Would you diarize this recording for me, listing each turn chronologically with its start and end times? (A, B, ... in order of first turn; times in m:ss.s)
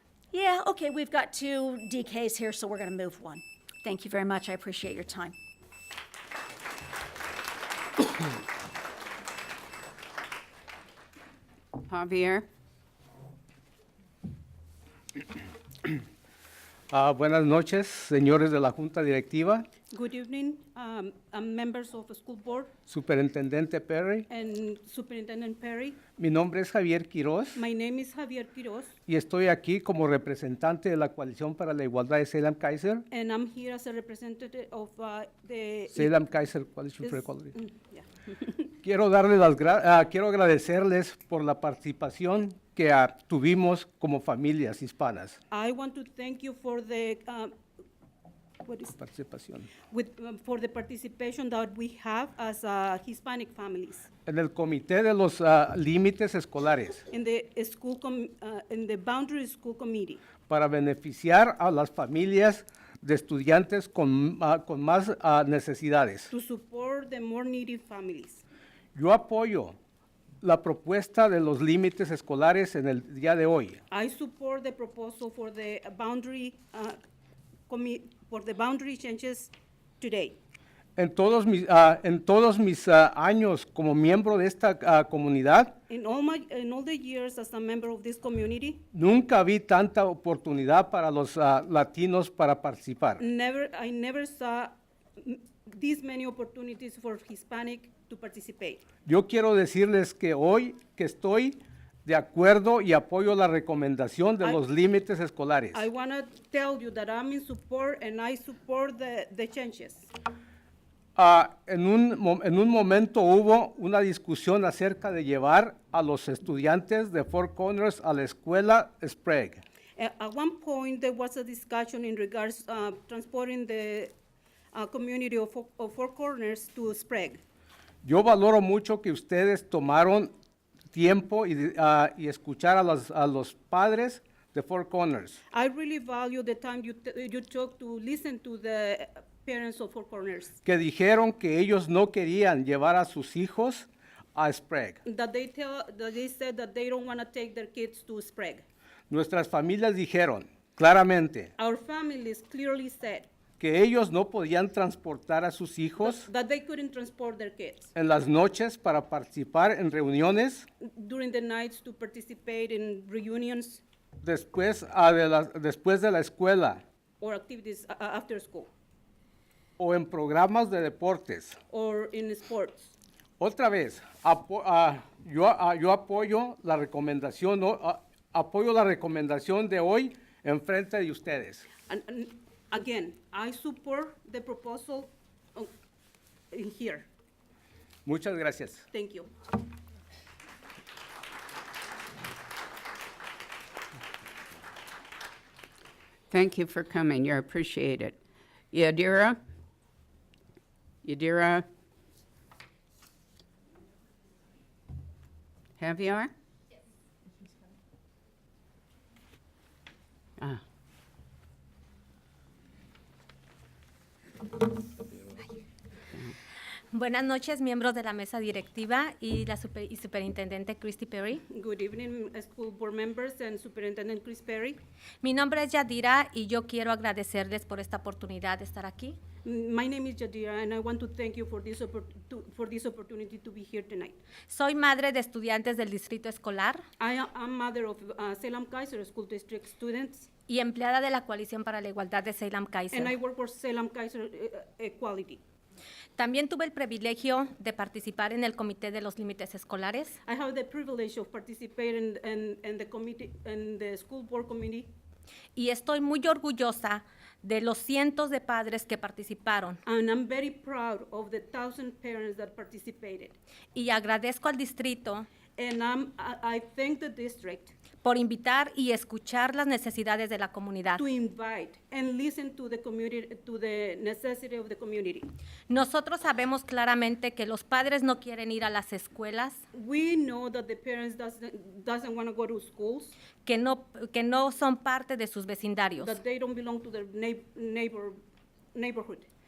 0:00.3-0:05.4 A
0:11.9-0:12.5 B
0:16.9-0:19.7 C
0:19.9-0:22.7 D
0:22.9-0:24.3 C
0:24.3-0:26.0 D
0:26.2-0:27.6 C
0:27.6-0:29.0 D
0:29.1-0:33.1 C
0:33.1-0:36.1 D
0:35.9-0:37.6 C
0:37.0-0:38.6 D
0:38.8-0:45.4 C
0:45.5-0:47.6 D
0:48.6-0:49.0 D
0:49.0-0:49.7 C
0:49.9-0:54.1 D
0:54.3-0:57.0 C
0:57.1-1:00.2 D
1:00.5-1:06.3 C
1:06.3-1:08.4 D
1:09.0-1:09.8 C
1:10.4-1:13.8 C
1:13.9-1:17.0 D
1:17.7-1:20.4 D
1:21.0-1:25.8 C
1:25.9-1:28.8 D
1:28.9-1:33.2 C
1:33.2-1:38.8 D
1:39.1-1:45.9 C
1:45.7-1:50.1 D
1:51.2-1:59.6 C
2:00.0-2:04.2 D
2:04.7-2:07.4 D
2:08.0-2:10.3 C
2:10.9-2:15.4 C
2:15.5-2:20.6 D
2:20.6-2:25.0 C
2:25.0-2:28.6 D
2:29.1-2:31.5 C
2:31.6-2:33.3 D
2:33.6-2:36.3 C
2:36.0-2:37.9 D
2:38.0-2:40.7 C
2:40.8-2:43.8 D
2:44.2-2:46.8 C
2:47.2-2:48.7 D
2:49.8-2:51.6 C
2:51.7-2:53.0 D
2:53.4-3:01.7 C
3:01.9-3:05.7 D
3:06.5-3:07.1 D
3:08.0-3:08.8 C
3:08.9-3:09.3 D
3:16.3-3:18.2 B
3:18.7-3:19.4 B
3:21.0-3:21.7 B
3:25.8-3:26.3 B
3:36.9-3:41.4 E
3:41.5-3:44.8 D
3:45.2-3:49.2 E
3:49.4-3:54.2 D
3:54.5-3:56.8 E
3:57.0-4:00.3 D
4:00.5-4:03.1 E
4:02.9-4:05.4 D
4:06.2-4:10.2 E
4:10.2-4:14.9 D
4:15.6-4:19.8 E
4:19.9-4:23.4 D
4:23.8-4:25.3 E
4:25.6-4:27.7 D
4:28.0-4:31.0 E
4:31.0-4:35.3 D
4:35.7-4:39.6 E
4:39.7-4:43.1 D
4:43.4-4:46.2 E
4:46.0-4:48.2 D
4:48.7-4:49.3 D